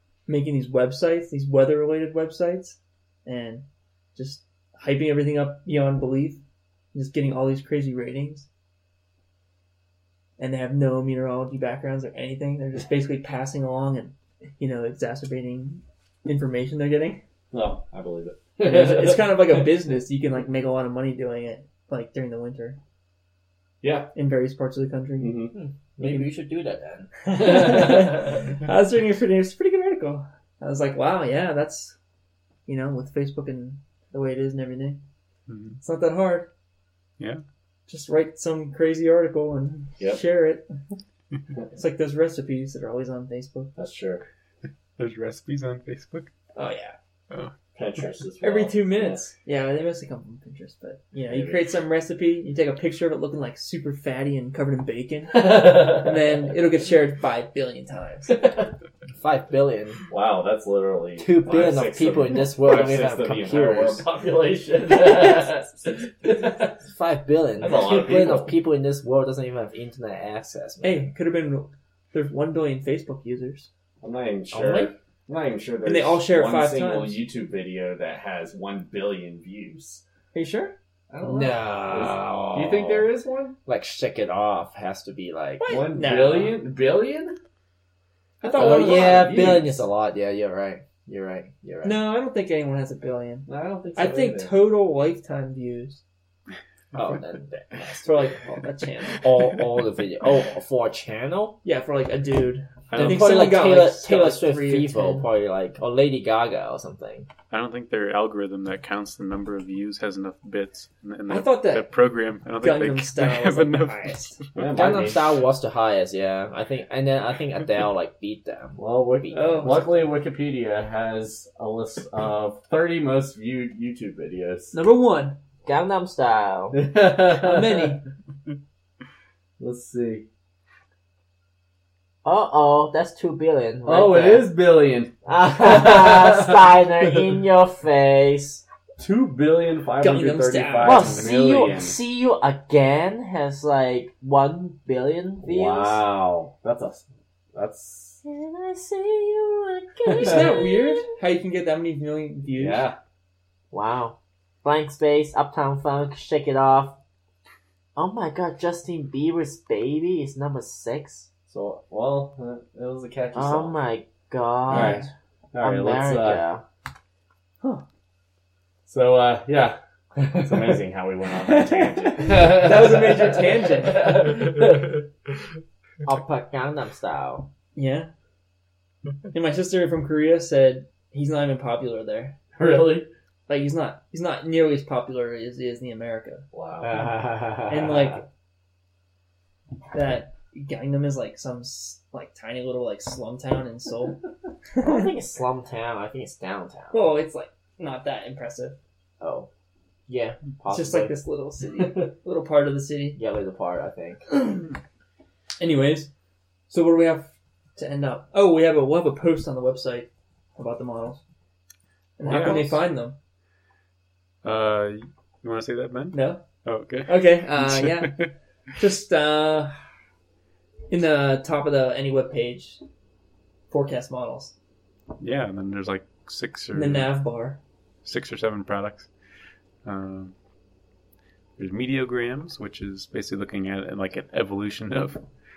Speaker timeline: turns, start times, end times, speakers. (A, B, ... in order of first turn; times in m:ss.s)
0:00.3-0:06.4 A
0:06.9-0:08.5 A
0:10.4-0:17.2 A
0:17.5-0:19.7 B
0:18.6-0:22.8 A
0:23.8-0:24.1 B
0:24.1-0:26.3 A
0:25.2-0:25.5 B
0:25.5-0:27.1 C
0:27.2-0:32.0 A
0:27.4-0:28.1 B
0:32.7-0:35.0 A
0:35.5-0:35.8 D
0:35.8-0:36.5 A
0:37.9-0:40.6 A
0:41.7-0:43.7 A
0:43.8-0:44.2 B
0:45.0-0:46.3 D
0:46.5-0:47.0 A
0:47.7-0:49.3 B
0:48.4-0:58.3 A
0:51.2-0:51.6 B
0:59.2-1:00.0 C
1:00.1-1:06.6 B
1:01.2-1:04.0 C
1:05.0-1:05.3 C
1:06.6-1:11.1 C
1:07.6-1:08.6 B
1:10.8-1:13.7 A
1:14.0-1:20.0 B
1:14.5-1:14.9 C
1:15.8-1:17.2 A
1:20.3-1:20.7 A
1:21.1-1:23.1 C
1:21.2-1:23.6 B
1:23.6-1:25.8 C
1:25.6-1:26.6 A
1:25.7-1:27.3 B
1:28.4-1:29.8 B
1:28.4-1:29.4 A
1:28.5-1:32.0 C
1:31.8-1:36.0 A
1:33.5-1:34.5 B
1:36.9-1:38.5 C
1:38.0-1:39.2 A
1:39.2-1:41.6 C
1:41.6-1:45.2 A
1:42.9-1:43.2 D
1:42.9-1:47.3 C
1:47.5-1:54.6 D
1:51.3-1:51.9 A
1:52.6-1:54.4 A
1:54.5-1:55.3 B
1:54.7-1:59.8 C
1:58.8-2:04.7 B
1:59.3-2:00.0 A
2:04.7-2:05.4 A
2:05.6-2:06.8 C
2:06.7-2:07.9 B
2:07.3-2:08.0 A
2:09.6-2:10.2 B
2:12.2-2:14.5 C
2:13.8-2:16.8 B
2:15.2-2:18.6 C
2:19.0-2:22.0 B
2:20.0-2:21.1 A
2:20.8-2:26.0 C
2:25.4-2:28.2 B
2:28.2-2:31.0 C
2:30.0-2:30.6 B
2:30.1-2:32.8 A
2:32.6-2:33.0 B
2:33.7-2:37.0 C
2:37.9-2:41.3 C
2:41.5-2:43.8 B
2:43.3-2:45.1 C
2:44.7-2:45.1 A
2:44.7-2:46.4 B
2:45.6-2:46.6 C
2:48.8-2:49.8 B
2:50.3-2:54.5 B
2:51.4-2:54.0 A
2:53.9-2:54.9 C
2:56.0-2:57.5 C
2:57.7-2:58.1 A
2:59.3-3:02.4 A
3:02.5-3:03.1 B
3:03.5-3:06.4 A
3:06.5-3:07.0 B
3:06.8-3:08.2 C
3:07.7-3:08.2 A
3:09.9-3:14.2 A
3:14.7-3:15.1 A
3:14.8-3:17.1 C
3:16.9-3:18.8 A
3:19.2-3:19.5 C
3:20.1-3:21.1 C
3:20.7-3:23.2 A
3:23.2-3:24.3 C
3:25.6-3:26.1 A
3:26.7-3:31.2 A
3:32.2-3:33.2 A
3:32.2-3:32.8 D
3:34.4-3:38.3 D
3:36.1-3:36.4 A
3:37.0-3:39.8 A
3:40.9-3:42.8 A
3:43.7-3:44.5 A
3:45.2-3:47.1 D
3:46.7-3:47.6 A
3:48.0-3:49.1 D
3:49.8-3:50.3 D
3:51.6-3:55.2 D